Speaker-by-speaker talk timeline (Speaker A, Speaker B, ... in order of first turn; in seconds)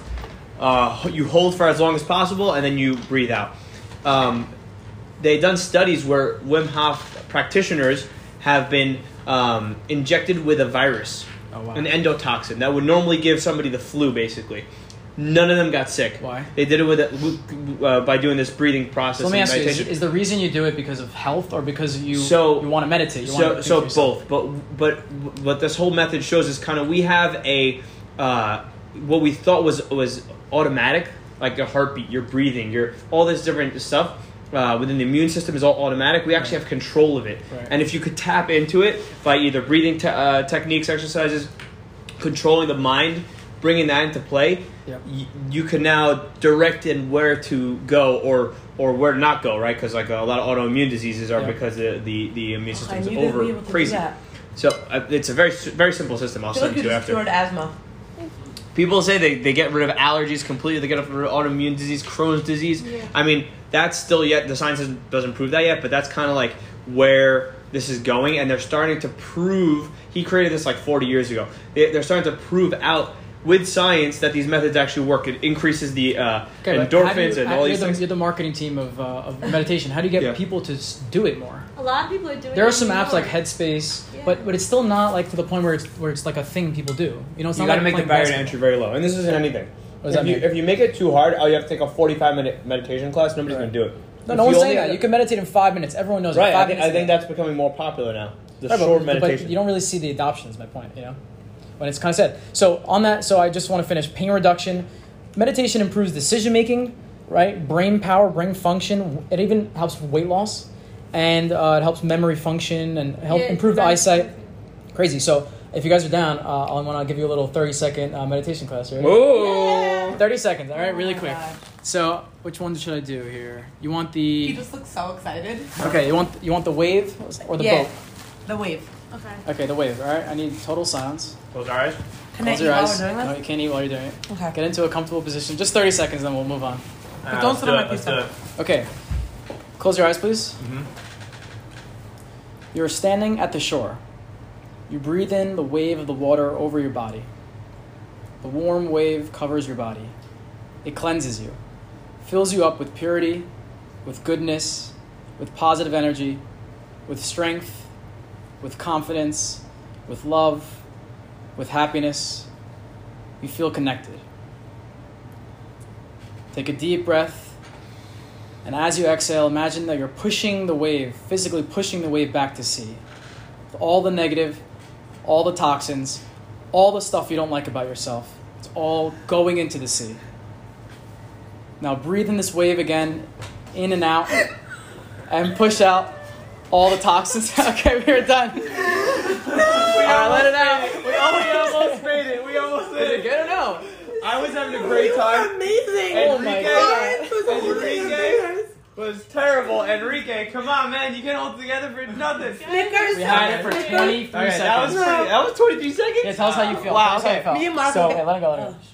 Speaker A: 0.6-4.5, 5.2-19.9, 22.1-41.5, 42.2-54.0, 54.5-57.2, 58.7-78.0, 87.5-95.0, 96.3-99.6, 119.0-120.2, 131.5-132.0, 137.2-138.3, 140.6-140.9, 189.2-193.5, 194.1-208.2
Speaker B: 11.5-11.9, 16.2-16.5, 19.2-24.2, 76.6-81.7, 82.5-88.6, 90.0-90.5, 94.2-97.2, 98.7-101.2, 101.8-114.3, 114.9-119.2, 120.1-124.6, 125.8-127.9, 129.4-131.3, 132.4-136.8, 138.6-138.9, 139.8-140.6, 142.7-144.0, 144.9-147.3, 148.4-150.1, 150.8-151.6, 152.2-153.5, 154.0-156.4, 157.1-157.9, 158.6-160.8, 161.6-162.5, 163.4-164.2, 166.5-167.5, 168.6-173.0, 173.7-174.6, 175.2-176.2, 176.7-180.2, 181.8-184.5, 185.3-186.2, 186.7-192.2, 192.9-193.9, 196.1-197.7, 203.1-205.2, 206.2-208.8
Speaker C: 52.7-54.1, 56.5-57.7, 119.3-120.2, 120.7-121.6, 124.4-125.7, 127.5-127.9, 128.4-128.9, 132.3-133.4, 134.3-134.5, 137.2-138.3, 194.5-198.7, 202.7-204.3, 204.8-205.3, 207.4-208.8
Speaker D: 62.8-63.1, 81.8-83.4, 84.1-84.4, 113.3-114.5, 119.3-120.1, 129.1-129.4, 202.6-204.2